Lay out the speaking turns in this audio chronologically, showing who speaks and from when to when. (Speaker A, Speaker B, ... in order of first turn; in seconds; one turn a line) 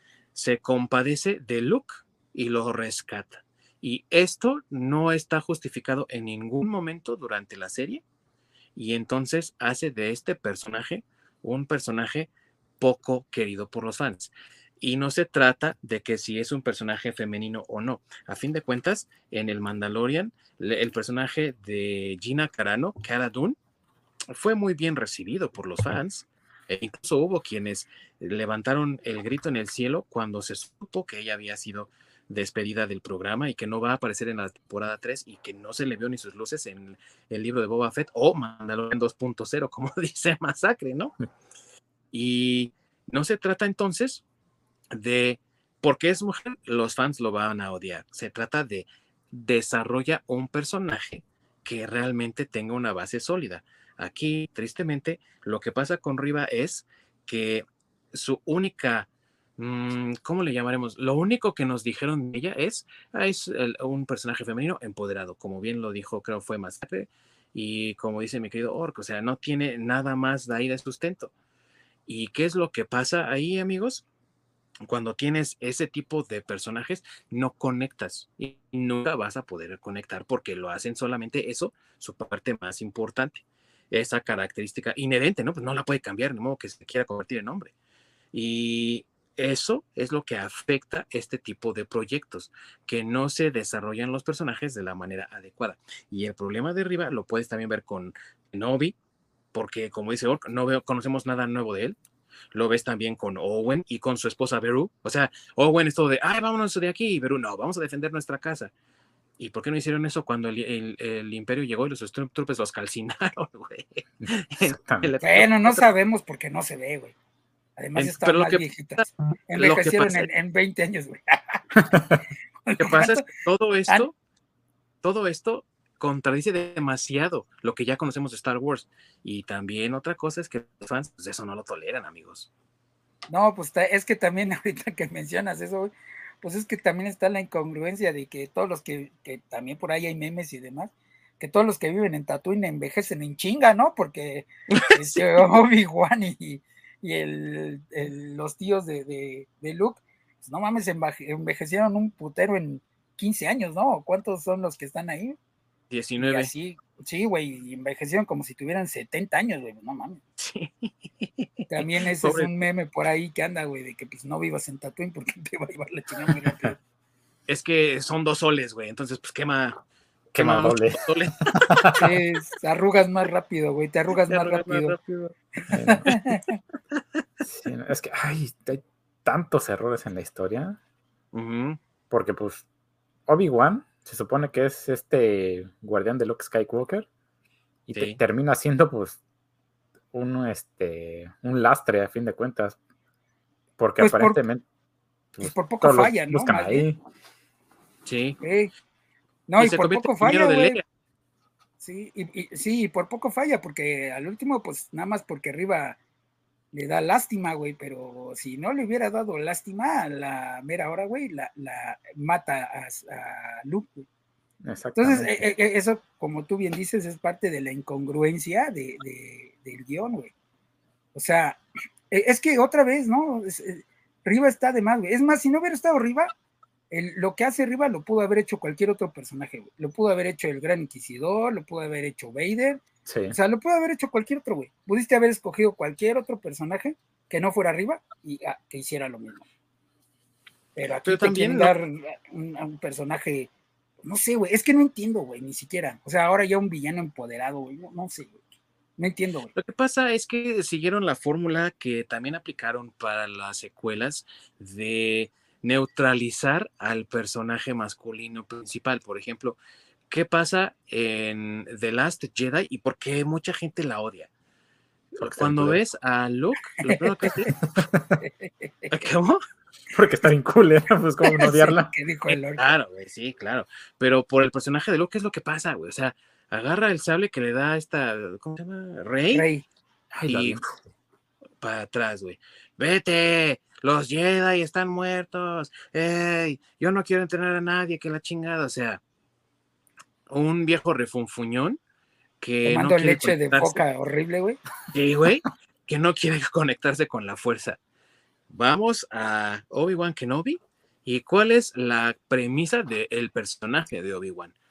Speaker A: 0.3-8.0
Speaker A: 8.8-12.3
Speaker A: 12.8-23.6
Speaker A: 24.3-41.1
Speaker A: 42.1-44.2
Speaker A: 44.9-71.3
Speaker A: 72.1-74.0
Speaker A: 74.8-87.7
Speaker A: 88.3-98.9
Speaker A: 99.5-102.0
Speaker A: 102.5-108.7
Speaker A: 109.4-115.8
Speaker B: 114.2-115.1
Speaker C: 115.2-117.1
Speaker C: 117.8-121.6
Speaker A: 118.0-120.3
Speaker B: 121.8-122.2
Speaker C: 122.7-123.2
Speaker A: 122.8-124.1
Speaker A: 125.0-132.5
Speaker C: 133.3-155.4
Speaker A: 144.7-145.4
Speaker A: 155.9-156.5
Speaker C: 156.2-160.2
Speaker A: 160.4-162.6
Speaker C: 161.7-166.8
Speaker A: 167.5-169.8
Speaker A: 170.3-172.0
Speaker B: 170.3-171.0
Speaker B: 171.6-172.1
Speaker C: 172.0-175.0
Speaker A: 174.2-175.3
Speaker C: 175.6-176.5
Speaker B: 175.7-176.0
Speaker A: 176.0-176.4
Speaker B: 177.4-180.8
Speaker A: 181.3-181.8
Speaker B: 182.1-182.6
Speaker B: 183.3-187.1
Speaker B: 187.9-189.2
Speaker A: 187.9-188.2
Speaker B: 190.1-192.8
Speaker B: 193.8-194.6
Speaker C: 194.0-194.4
Speaker B: 195.4-197.0
Speaker C: 195.4-196.9
Speaker A: 198.1-198.4
Speaker C: 198.4-198.7
Speaker C: 199.5-200.8
Speaker A: 199.6-200.8
Speaker C: 201.8-206.0
Speaker C: 206.7-214.1
Speaker B: 214.6-215.4
Speaker C: 214.9-220.3
Speaker C: 221.1-226.3
Speaker C: 226.9-239.4
Speaker B: 233.1-233.4
Speaker C: 240.8-243.5
Speaker A: 241.0-241.7
Speaker C: 244.0-248.3
Speaker C: 249.0-249.5
Speaker A: 249.5-259.6
Speaker A: 260.1-264.3
Speaker B: 265.2-265.8
Speaker A: 265.2-267.5
Speaker C: 266.9-267.5
Speaker B: 267.7-268.2
Speaker C: 268.2-268.9
Speaker A: 268.9-269.4
Speaker B: 269.9-271.9
Speaker C: 271.2-272.6
Speaker A: 272.3-279.4
Speaker C: 279.3-279.6
Speaker B: 280.1-280.8
Speaker A: 280.2-280.6
Speaker A: 281.6-289.0
Speaker A: 290.3-291.8
Speaker A: 292.4-293.8
Speaker C: 292.6-294.6
Speaker A: 294.9-297.8
Speaker A: 298.5-304.5